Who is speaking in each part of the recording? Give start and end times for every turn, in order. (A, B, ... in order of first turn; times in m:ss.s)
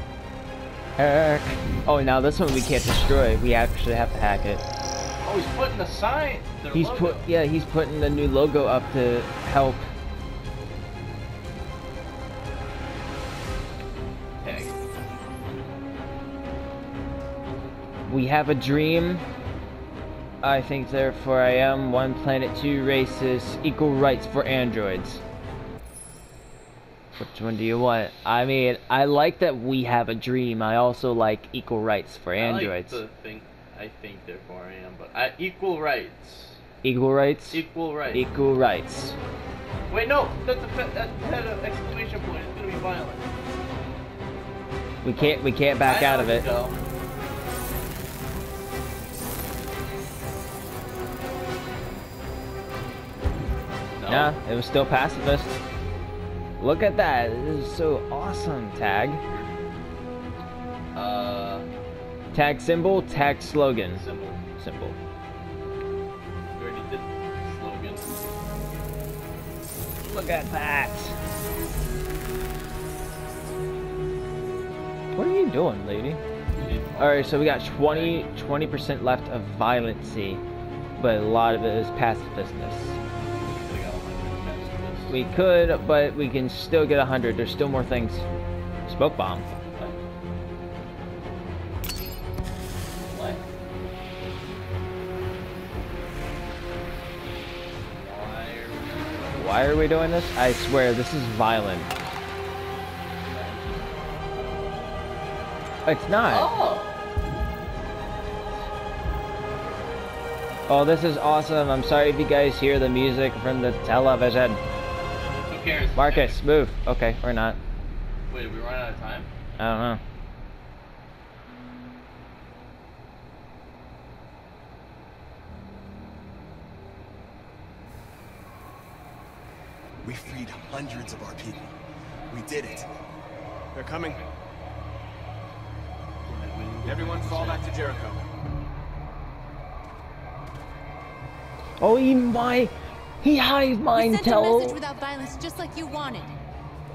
0:01.0-0:04.6 A
0:05.2-0:07.3 B
0:06.7-0:09.9 A
0:14.4-0:14.8 B
0:18.1-0:19.2 A
0:20.4-0:25.2 A
0:27.2-0:33.0 A
0:32.4-0:36.6 B
0:36.8-0:39.2 A
0:37.5-0:38.2 B
0:39.9-0:43.3 B
0:45.0-0:46.5 A
0:45.1-0:46.8 B
0:54.0-0:54.4 B
0:54.1-0:55.6 A
0:56.6-0:59.2 A
0:59.2-0:59.5 B
1:00.9-1:01.6 B
1:02.3-1:04.0 A
1:03.9-1:04.4 B
1:04.6-1:05.0 A
1:06.6-1:08.2 B
1:10.0-1:11.1 A
1:15.1-1:16.2 A
1:16.6-1:18.3 B
1:17.0-1:20.4 A
1:21.0-1:23.0 A
1:23.4-1:25.2 B
1:25.1-1:28.2 A
1:28.8-1:29.4 A
1:33.0-1:33.4 B
1:37.9-1:39.8 B
1:39.4-1:41.9 A
1:43.2-1:44.6 B
1:45.8-1:46.5 A
1:46.3-1:47.0 B
1:50.7-1:54.6 A
1:55.4-1:56.4 B
1:56.0-1:57.6 A
1:58.3-1:59.3 B
1:59.6-2:00.0 A
2:10.0-2:11.8 C
2:12.3-2:12.9 C
2:13.7-2:14.3 D
2:16.2-2:17.6 B
2:16.8-2:18.2 D
2:21.8-2:24.8 A
2:23.9-2:26.3 E